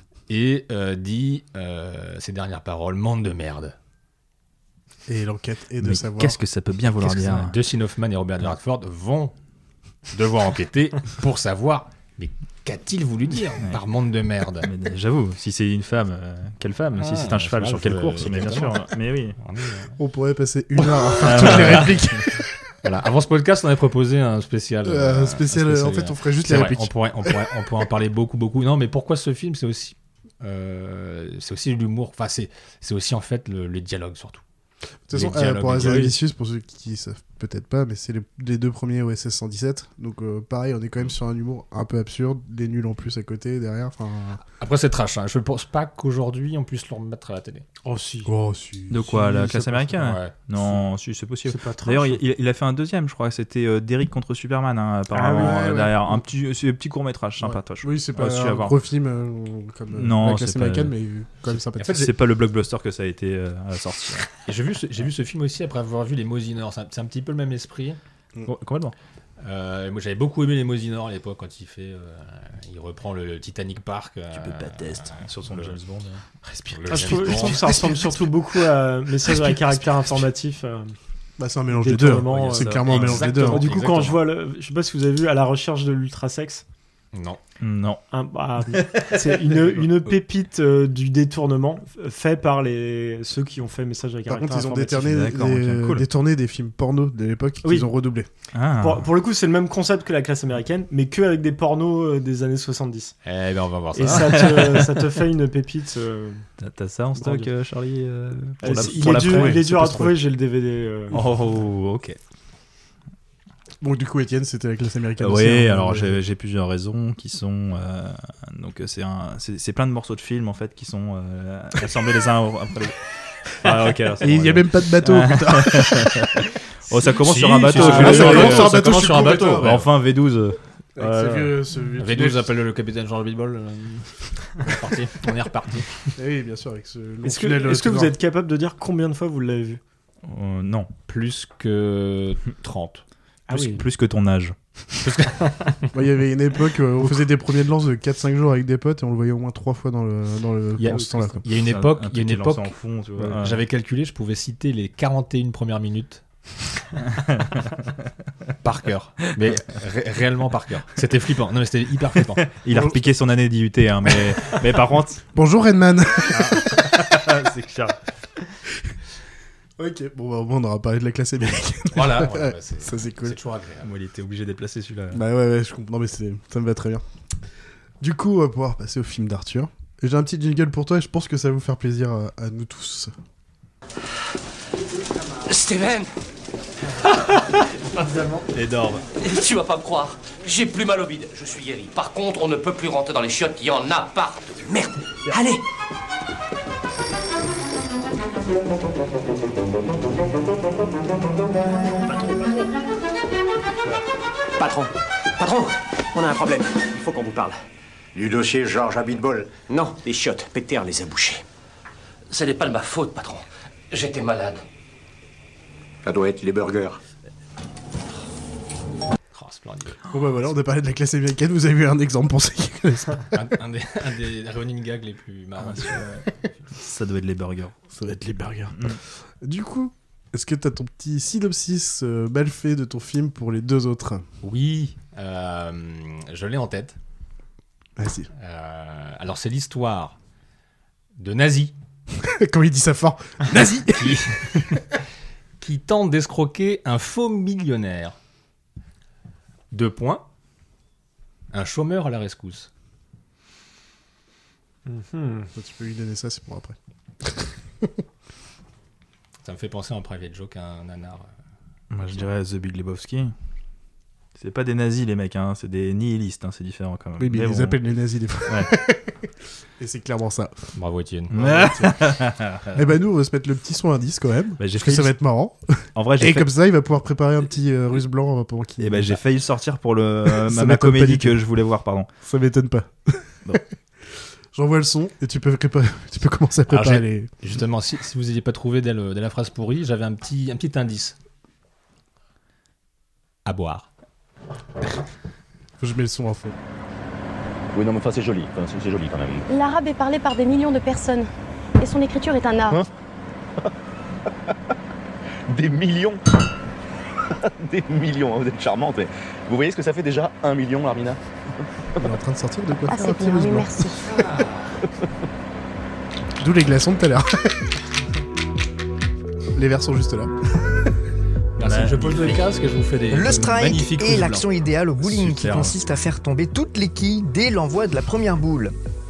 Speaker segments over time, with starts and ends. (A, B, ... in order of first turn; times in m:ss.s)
0:00.3-0:03.7 A
0:05.1-0:06.4 B
0:05.8-0:07.6 C
0:07.0-0:09.3 A
0:10.1-0:14.7 A
0:14.6-0:19.4 C
0:17.0-0:18.9 A
0:19.4-0:20.0 A
0:20.0-0:22.4 B
0:21.2-0:21.9 A
0:21.2-0:22.0 C
0:22.8-0:34.4 A
0:24.8-0:27.5 B
0:35.1-0:44.4 B
0:35.1-0:36.1 A
0:44.6-0:47.6 A
0:47.8-0:48.3 D
0:48.2-0:49.8 B
0:48.9-0:58.7 C
0:50.0-0:50.4 A
0:51.4-0:52.2 D
0:55.1-0:55.7 D
0:55.3-0:56.2 B
0:57.4-1:02.1 B
0:59.9-1:00.9 C
1:01.8-1:02.1 A
1:01.9-1:04.3 C
1:04.4-1:08.0 A
1:08.4-1:08.9 C
1:09.4-1:15.8 A
1:14.3-1:16.2 C
1:16.7-1:17.8 A
1:16.9-1:17.2 C
1:16.9-1:20.9 D
1:21.4-1:23.7 B
1:21.7-1:26.6 D
1:22.4-1:24.2 A
1:22.4-1:23.2 C
1:27.1-1:27.4 A
1:27.6-1:28.0 C
1:28.1-1:35.1 D
1:28.7-1:29.2 C
1:34.3-1:38.3 B
1:35.0-1:36.0 C
1:37.6-1:37.9 D
1:38.5-1:39.1 C
1:38.8-1:43.2 D
1:43.2-1:44.7 A
1:43.9-1:46.5 D
1:44.0-1:44.9 C
1:46.6-1:50.1 C
1:47.2-1:47.5 D
1:48.6-1:51.2 D
1:48.7-1:50.0 B
1:51.1-1:52.2 C
1:53.8-1:56.2 B
1:55.2-2:11.6 C
2:04.2-2:06.3 B
2:07.0-2:09.9 A
2:07.7-2:09.8 B
2:07.7-2:08.6 D
2:11.0-2:12.5 B
2:12.0-2:16.1 A
2:16.2-2:18.1 B
2:17.2-2:19.8 D
2:20.2-2:20.9 C
2:21.1-2:23.0 A
2:23.5-2:23.9 D
2:23.5-2:24.6 C
2:25.0-2:25.7 A
2:25.9-2:31.4 B
2:30.8-2:32.8 A
2:31.5-2:33.6 C
2:33.3-2:36.2 A
2:37.1-2:37.8 C
2:38.6-2:42.4 A
2:42.4-2:45.2 C
2:42.7-2:43.0 B
2:45.3-2:47.2 B
2:46.3-2:48.0 C
2:49.8-2:53.4 B
2:51.9-2:53.9 A
2:53.8-2:55.2 C
2:55.1-2:57.0 B
2:58.0-3:03.1 B
3:05.4-3:06.1 E
3:08.0-3:08.5 D
3:08.5-3:09.0 C
3:09.1-3:15.6 E
3:24.6-3:25.8 E
3:29.7-3:30.0 E
3:32.3-3:34.6 E
3:39.3-3:40.0 A
3:40.1-3:43.4 B
3:43.3-3:46.1 A
3:45.6-3:46.2 C
3:46.8-3:47.8 C
3:47.9-3:54.2 B
3:48.7-3:49.0 C
3:54.4-3:57.0 A
3:58.0-3:58.3 B
3:58.4-4:00.2 A
4:01.2-4:01.7 A
4:02.1-4:04.3 B
4:03.9-4:05.0 A
4:05.6-4:08.2 A
4:09.7-4:10.2 A
4:11.5-4:12.7 A
4:14.8-4:15.5 D
4:15.5-4:17.3 B
4:19.4-4:21.3 A
4:21.9-4:23.3 C
4:24.4-4:27.8 C
4:27.2-4:29.2 B
4:28.5-4:28.8 C
4:29.8-4:30.7 B
4:30.7-4:31.3 A
4:31.3-4:32.6 C
4:31.3-4:39.2 B
4:34.6-4:35.2 C
4:35.9-4:36.5 C
4:38.8-4:42.1 C
4:40.2-4:41.4 B
4:42.2-4:43.6 B
4:44.5-4:47.3 B
4:46.7-4:51.2 A
4:53.4-4:53.9 A
4:55.8-4:56.6 B
4:57.7-4:59.5 F
4:59.5-5:02.8 G
5:05.5-5:06.2 F
5:07.4-5:11.2 F
5:12.0-5:14.5 B
5:12.9-5:14.0 G
5:14.2-5:14.5 A
5:16.4-5:17.7 B
5:19.5-5:20.3 B
5:21.6-5:25.8 A
5:21.6-5:22.4 C
5:23.1-5:28.7 H